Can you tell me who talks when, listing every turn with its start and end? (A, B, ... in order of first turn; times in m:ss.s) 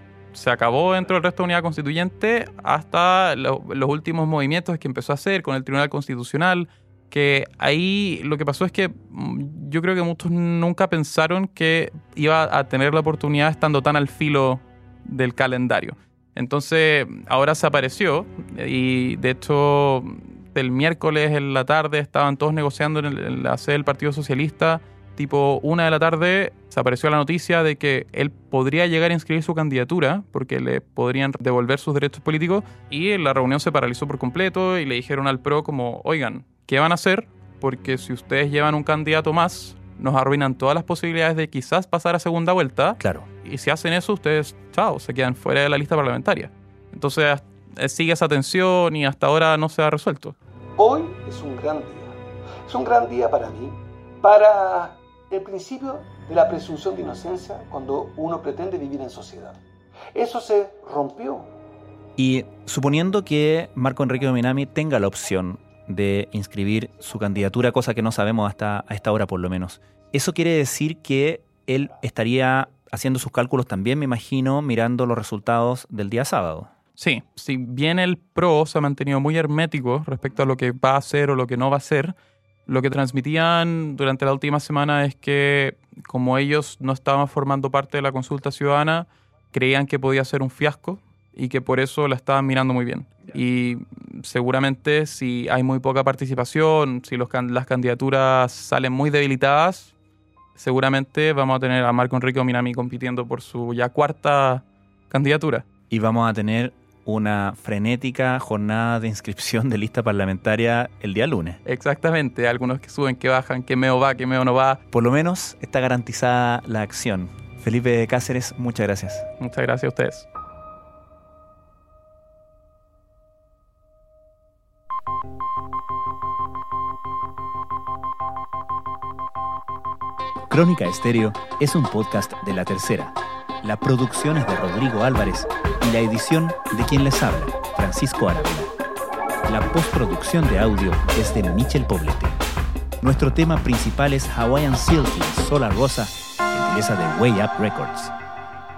0:00.3-0:50.4 A
0:43.0-0:43.2 B
0:50.8-0:59.6 C
1:00.1-1:01.5 C
1:02.2-1:16.7 B
1:17.0-1:39.9 A
1:40.6-1:45.7 A
1:45.9-1:51.6 B
1:51.6-1:54.8 A
1:54.9-1:59.2 B
1:59.4-2:00.2 A
2:10.5-2:18.7 B
2:19.4-2:22.4 B
2:23.0-2:28.1 B